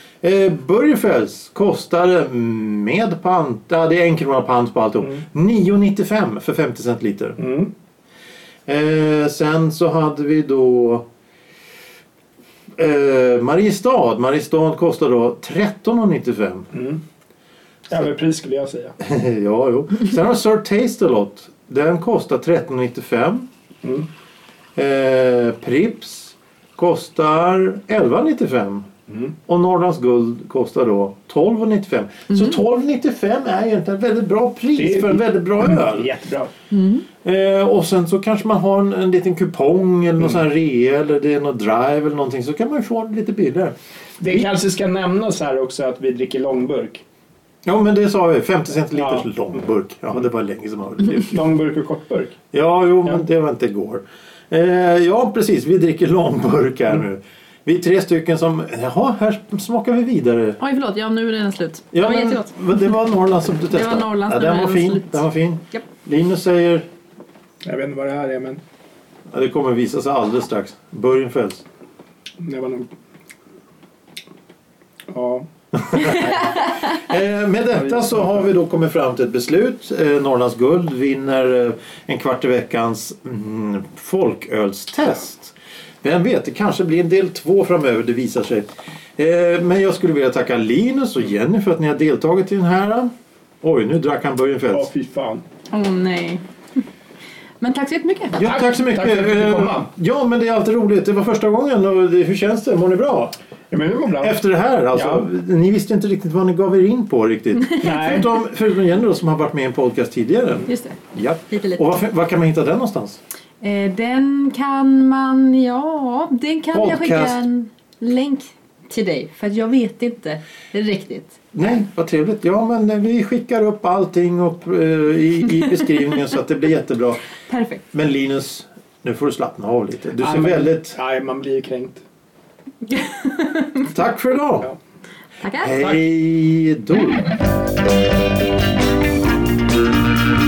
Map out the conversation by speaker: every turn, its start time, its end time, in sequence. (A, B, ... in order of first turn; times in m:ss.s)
0:00.2-0:07.4 A
0:07.4-0:07.7 B
0:08.7-0:11.1 A
0:12.8-0:16.7 A
0:16.7-0:17.0 B
0:17.9-0:18.9 B
0:19.0-0:23.5 A
0:24.8-0:28.9 A
0:29.1-0:29.3 B
0:29.5-0:36.1 A
0:34.8-0:36.5 B
0:36.7-0:37.0 C
0:37.2-0:43.7 A
0:44.2-0:47.0 B
0:47.6-0:51.4 A
0:48.9-0:49.3 B
0:51.3-0:52.4 B
0:52.5-1:00.6 A
1:00.6-1:02.8 C
1:01.9-1:06.9 A
1:03.7-1:05.8 C
1:07.6-1:08.6 B
1:09.3-1:11.6 A
1:12.4-1:12.9 B
1:15.1-1:16.3 B
1:15.8-1:33.1 A
1:17.9-1:18.1 B
1:33.6-1:34.9 A
1:34.7-1:35.4 B
1:35.7-1:36.4 C
1:37.6-1:38.4 C
1:38.4-1:43.4 A
1:38.4-1:39.9 B
1:43.7-1:44.4 B
1:44.2-1:53.2 A
1:44.9-1:45.3 B
1:47.6-1:48.2 C
1:47.8-1:48.2 B
1:50.7-1:51.9 C
1:53.6-2:01.4 C
1:56.7-1:57.4 A
2:01.5-2:07.2 A
2:07.5-2:07.8 C
2:07.9-2:11.0 A
2:10.2-2:12.0 B
2:12.9-2:13.8 C
2:13.9-2:14.7 A
2:15.4-2:15.8 C
2:15.6-2:17.3 A